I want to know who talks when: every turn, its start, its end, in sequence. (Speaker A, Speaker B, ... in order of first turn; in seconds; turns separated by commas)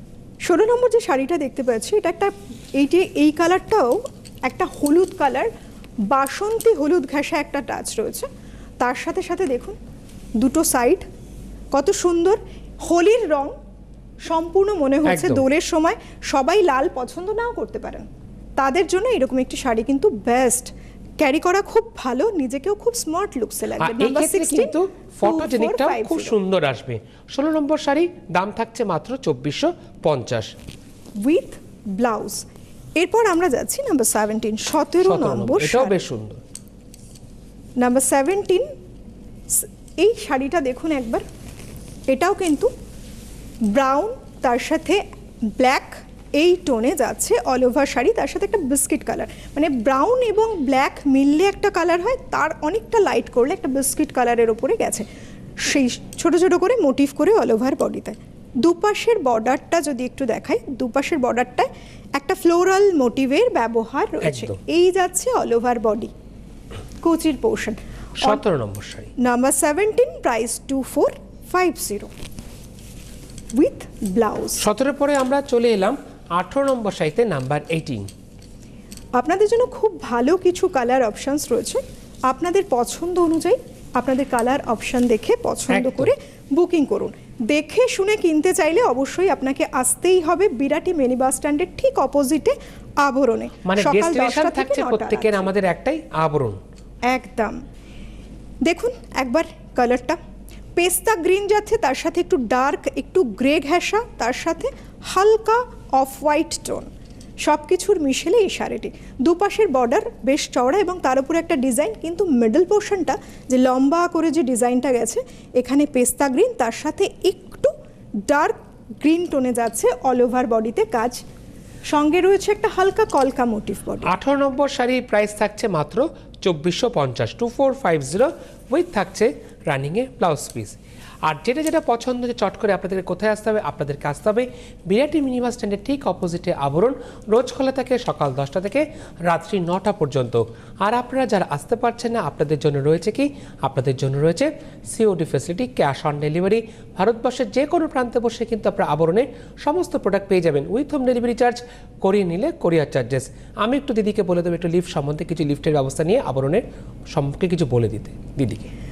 Speaker A: 0.5-5.5, Speaker A: 6.1-8.3, Speaker A: 8.8-9.8, Speaker A: 10.4-11.1, Speaker A: 11.7-13.6, Speaker A: 14.2-18.1, Speaker B: 15.1-15.4, Speaker A: 18.6-26.4, Speaker B: 23.8-30.5, Speaker A: 31.2-32.5, Speaker A: 33.0-36.0, Speaker B: 35.0-36.4, Speaker A: 37.8-38.7, Speaker A: 39.5-41.2, Speaker A: 42.1-42.7, Speaker A: 43.7-45.0, Speaker A: 45.6-55.1, Speaker A: 55.6-66.1, Speaker B: 64.2-64.6, Speaker A: 67.0-68.4, Speaker B: 68.2-69.1, Speaker A: 69.2-72.1, Speaker A: 73.5-74.6, Speaker B: 74.6-78.1, Speaker A: 79.2-95.5, Speaker B: 85.7-86.1, Speaker B: 93.7-96.6, Speaker A: 97.1-97.6, Speaker A: 98.7-100.2, Speaker A: 100.8-106.9, Speaker A: 107.4-117.7, Speaker A: 118.3-121.2, Speaker A: 121.9-124.1, Speaker B: 124.0-158.7